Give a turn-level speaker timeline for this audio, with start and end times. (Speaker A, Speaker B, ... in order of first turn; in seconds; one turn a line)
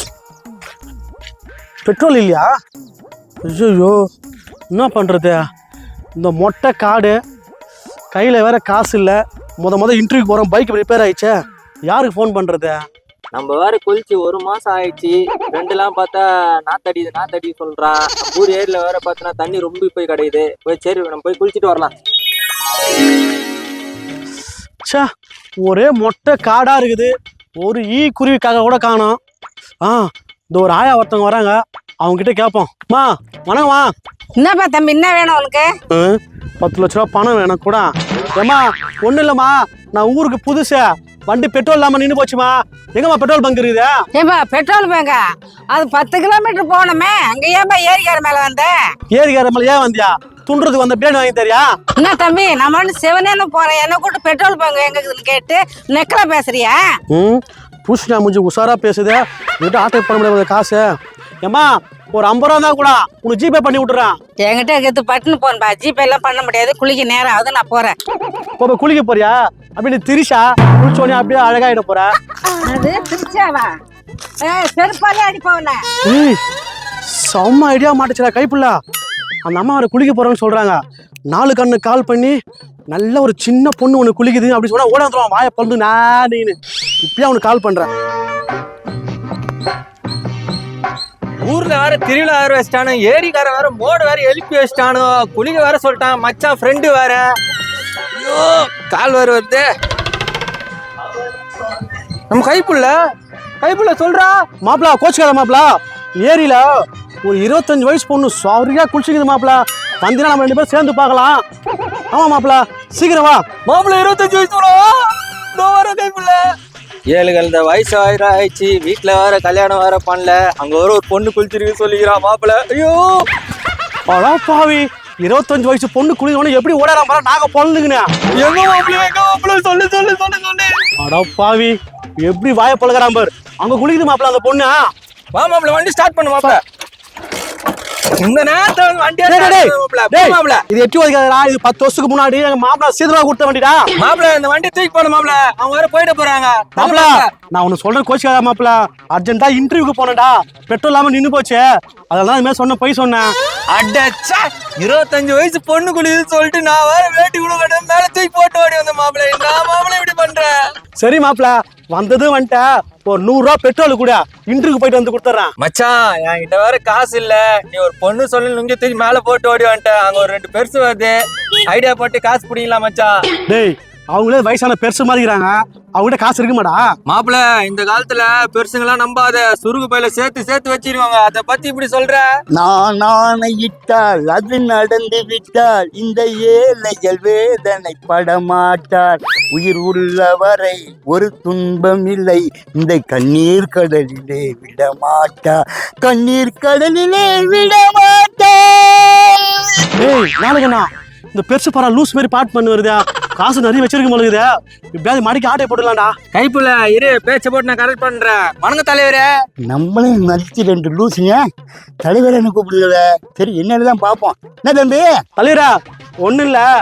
Speaker A: 1.8-2.5
Speaker A: 3.4-4.1
Speaker A: 4.7-5.4
Speaker A: 6.2-7.2
Speaker A: 8.1-12.8
Speaker B: 13.3-21.9
Speaker A: 25.6-29.2
Speaker A: 29.8-33.9
Speaker C: 34.4-35.7
Speaker A: 35.9-44.0
Speaker C: 44.1-48.8
Speaker A: 49.1-51.7
Speaker C: 52.0-56.8
Speaker A: 57.1-64.2
Speaker C: 64.4-68.0
Speaker A: 68.6-72.1
Speaker C: 72.6-73.7
Speaker C: 74.4-75.8
Speaker A: 76.0-76.4
Speaker A: 77.1-78.8
Speaker A: 79.4-82.4
Speaker A: 82.9-87.9
Speaker B: 91.4-97.3
Speaker B: 98.2-99.7
Speaker B: 101.8-103.0
Speaker B: 103.6-104.4
Speaker A: 104.6-106.7
Speaker A: 107.2-111.4
Speaker A: 112.1-113.4
Speaker B: 113.7-116.4
Speaker B: 117.1-123.3
Speaker A: 124.1-128.1
Speaker B: 128.3-130.8
Speaker A: 131.0-134.8
Speaker B: 135.3-136.6
Speaker B: 138.2-140.6
Speaker A: 139.2-143.9
Speaker B: 144.0-147.3
Speaker A: 146.8-153.3
Speaker B: 153.7-160.5
Speaker A: 161.0-165.5
Speaker B: 165.6-173.1
Speaker A: 173.5-176.9
Speaker B: 177.1-182.3
Speaker D: 182.5-199.6
Speaker A: 200.0-206.2
Speaker B: 206.3-209.3
Speaker D: 209.7-211.4
Speaker D: 212.0-215.1
Speaker A: 215.4-216.7